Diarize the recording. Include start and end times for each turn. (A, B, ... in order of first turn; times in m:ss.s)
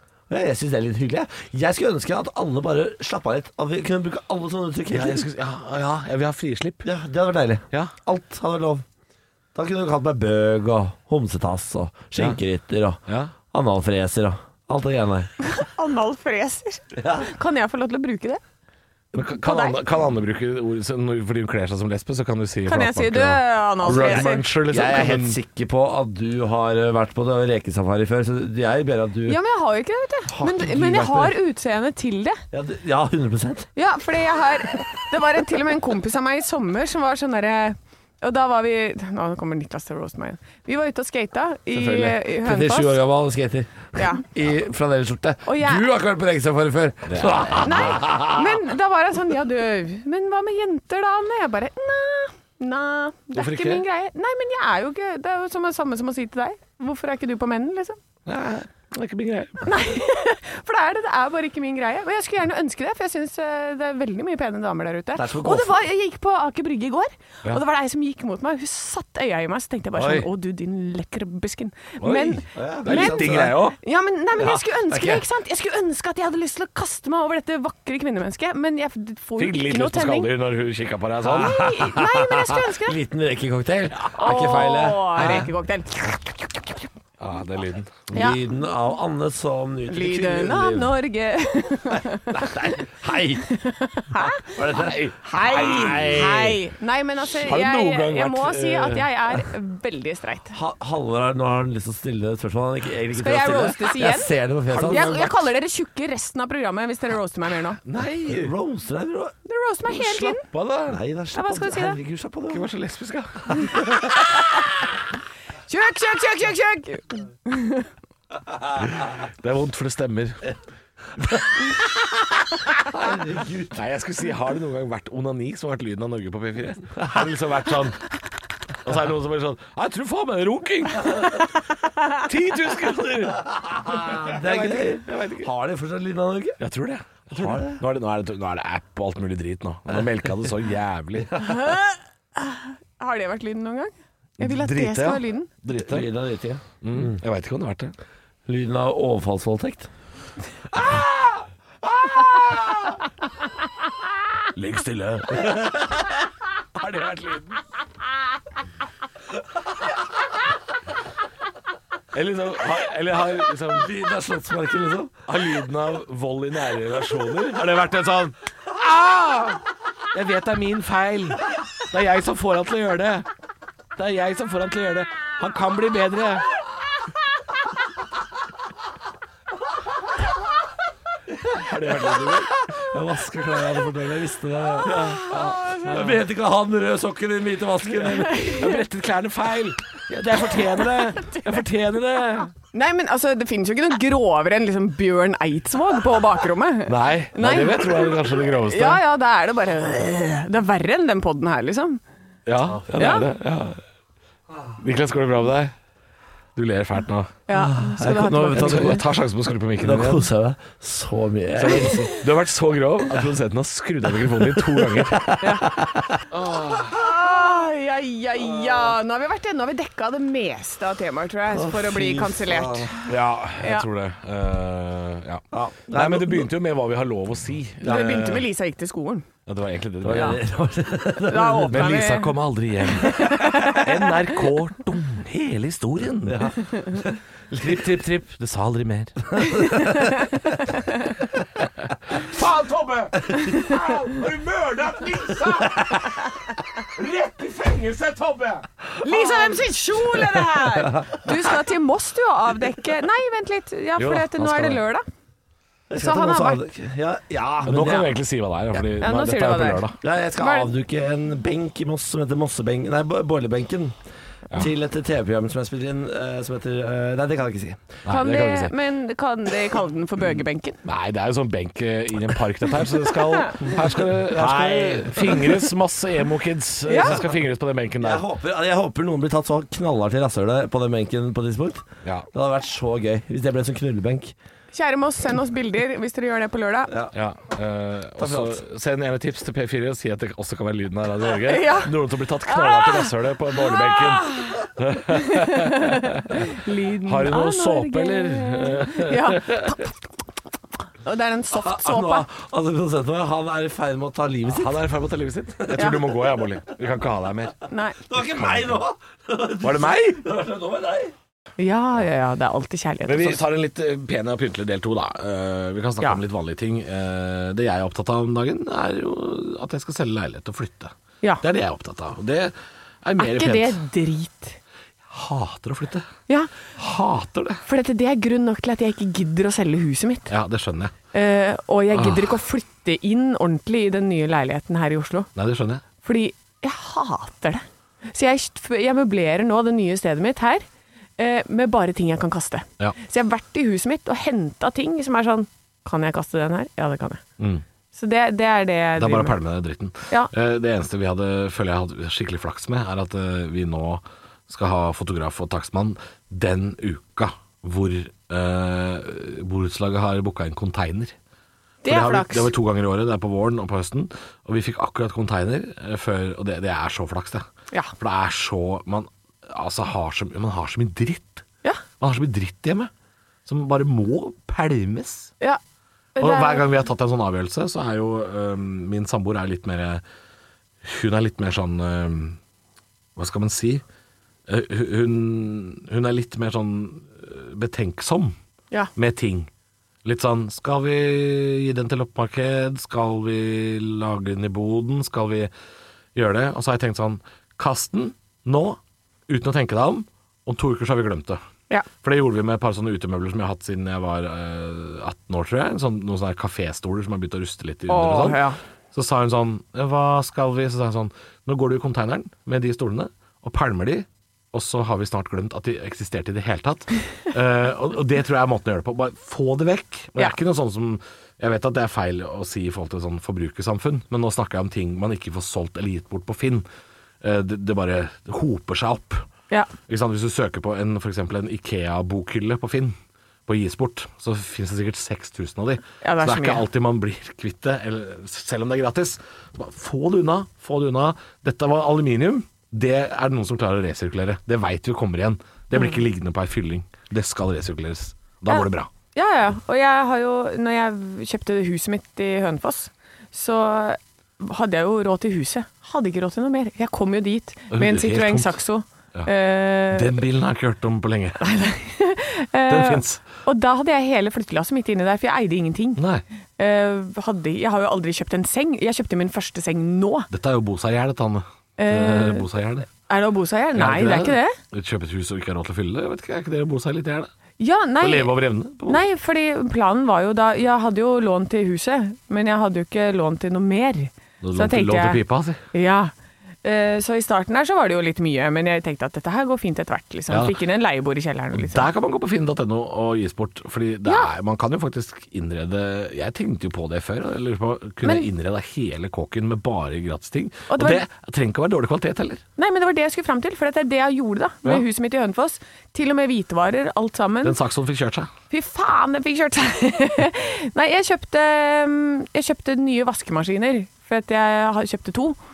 0:00.3-0:05.3 A
0:04.9-0:06.9 B
0:06.8-0:08.8 A
0:09.6-0:15.3 A
0:13.1-0:13.3 B
0:15.4-0:18.4 C
0:17.0-0:17.3 A
0:19.1-0:25.4 B
0:19.4-0:19.8 C
0:22.7-0:24.5 C
0:23.8-0:29.4 A
0:29.3-0:32.4 C
0:30.3-0:31.4 A
0:32.5-0:33.7 A
0:33.8-0:43.0 C
0:41.7-0:48.5 A
0:44.0-0:44.2 C
0:45.5-0:45.8 C
0:47.1-0:48.1 B
0:47.6-0:58.0 C
0:53.3-0:53.8 B
0:58.3-0:59.7 B
0:59.6-1:20.3 C
1:05.2-1:05.7 A
1:10.0-1:10.3 B
1:12.0-1:13.8 B
1:12.5-1:13.6 A
1:14.9-1:15.2 B
1:19.4-1:21.6 B
1:21.2-1:25.5 A
1:21.3-1:23.0 C
1:24.1-1:26.9 C
1:25.2-1:25.5 B
1:27.2-1:28.3 B
1:28.1-1:30.9 A
1:28.1-1:28.4 C
1:29.9-1:32.6 C
1:32.3-1:33.5 A
1:33.4-1:40.6 C
1:34.2-1:36.2 A
1:34.8-1:36.6 B
1:37.2-1:39.2 B
1:40.5-1:45.3 A
1:43.1-1:47.8 C
1:44.7-1:45.3 B
1:47.8-1:48.5 B
1:48.2-1:49.3 A
1:49.5-1:50.4 C
1:49.9-1:51.0 B
1:50.9-1:52.6 A
1:51.3-1:52.0 C
1:52.5-1:54.2 B
1:55.7-1:57.9 C
1:58.9-2:00.5 B
2:02.9-2:03.8 A
2:03.7-2:08.0 B
2:08.8-2:15.5 B
2:13.9-2:16.6 A
2:16.6-2:21.4 B
2:17.3-2:17.8 A
2:21.4-2:25.5 C
2:24.4-2:26.1 B
2:25.9-2:27.2 A
2:26.8-2:27.9 B
2:28.5-2:29.9 A
2:30.8-2:31.1 B
2:32.0-2:32.9 B
2:34.5-2:36.0 B
2:36.7-2:37.6 B
2:42.1-2:43.9 B
2:43.7-2:45.2 A
2:45.3-2:53.3 B
2:54.0-2:56.5 B
3:01.5-3:02.5 B
3:01.9-3:08.6 A
3:04.8-3:06.2 B
3:05.0-3:05.9 C
3:08.2-3:08.8 C
3:08.4-3:12.5 B
3:12.7-3:22.0 C
3:16.9-3:19.0 B
3:22.5-3:23.8 B
3:23.0-3:23.3 C
3:24.8-3:25.7 B
3:26.6-3:27.3 B
3:27.5-3:29.0 C
3:27.5-3:29.0 A
3:28.5-3:30.3 B
3:29.8-3:32.2 A
3:31.6-3:35.3 B
3:34.5-3:36.2 A
3:35.4-3:35.7 C
3:36.3-3:37.0 B
3:36.9-3:43.9 C
3:41.5-3:42.9 A
3:43.1-3:48.5 B
3:45.5-3:46.5 A
3:47.8-3:49.3 C
3:49.5-3:50.4 B
3:50.0-3:51.9 A
3:51.3-3:52.4 C
3:51.7-3:56.5 B
3:52.9-3:54.1 C
3:56.3-3:57.8 A
3:57.5-3:59.4 B
3:59.4-4:00.2 A
3:59.5-4:00.3 C
4:02.1-4:08.7 B
4:09.0-4:15.0 C
4:14.0-4:14.8 B
4:15.9-4:18.2 A
4:16.0-4:16.6 C
4:17.6-4:20.0 B
4:19.0-4:20.7 C
4:20.0-4:24.0 A
4:24.5-4:28.0 A
4:28.0-4:28.8 B
4:28.1-4:30.8 C
4:30.8-4:38.2 B
4:33.2-4:33.6 C
4:34.3-4:35.6 A
4:36.9-4:37.2 C
4:36.9-4:37.2 A
4:38.0-4:44.3 A
4:44.7-4:46.9 C
4:47.1-4:59.8 B
4:48.2-4:48.6 A
4:51.4-5:00.0 C
5:01.0-5:02.3 C
5:01.5-5:04.8 A
5:04.5-5:07.6 B
5:05.6-5:06.0 A
5:05.8-5:06.0 C
5:07.7-5:08.0 C
5:08.0-5:11.1 A
5:08.2-5:08.8 B
5:09.6-5:10.2 B
5:11.6-5:13.4 C
5:13.1-5:23.8 B
5:23.2-5:24.6 C
5:25.1-5:26.1 B
5:26.7-5:27.6 B
5:27.7-5:30.3 C
5:30.3-5:31.0 B
5:31.1-5:35.3 C
5:31.9-5:32.4 B
5:35.4-5:35.8 B
5:36.0-5:40.6 C
5:41.2-5:47.2 C
5:47.4-5:47.6 B
5:47.9-5:49.4 C
5:49.0-6:01.2 B
6:01.8-6:02.5 C
6:01.9-6:07.5 B
6:08.0-6:11.4 B
6:12.0-6:12.9 B
6:13.5-6:15.3 B
6:16.2-6:16.7 C
6:16.2-6:20.0 B
6:20.8-6:22.4 B
6:23.2-6:23.8 B
6:24.5-6:28.4 B
6:29.0-6:29.5 B
6:30.0-6:35.5 B
6:36.2-6:41.4 B
6:42.0-7:06.6 B
6:47.9-6:48.6 C
7:07.2-7:09.3 B
7:09.9-7:28.9 B
7:16.0-7:16.6 C
7:28.5-7:40.2 C
7:37.7-7:38.6 B
7:39.9-7:41.4 B
7:41.4-7:46.0 C
7:42.7-7:43.2 B
7:46.0-7:46.2 B
7:46.6-7:50.3 C
7:50.3-7:52.9 B
7:51.8-7:52.5 C
7:53.1-7:54.6 C
7:53.8-7:57.3 B
7:57.6-7:58.3 C
7:58.0-7:59.0 B
7:58.9-8:05.2 C
8:04.4-8:05.6 B
8:05.7-8:06.1 C
8:06.6-8:11.9 C
8:10.3-8:10.6 B
8:11.5-8:22.4 B
8:20.7-8:21.0 C
8:22.6-8:27.6 C
8:27.4-8:28.3 B
8:28.5-8:35.4 C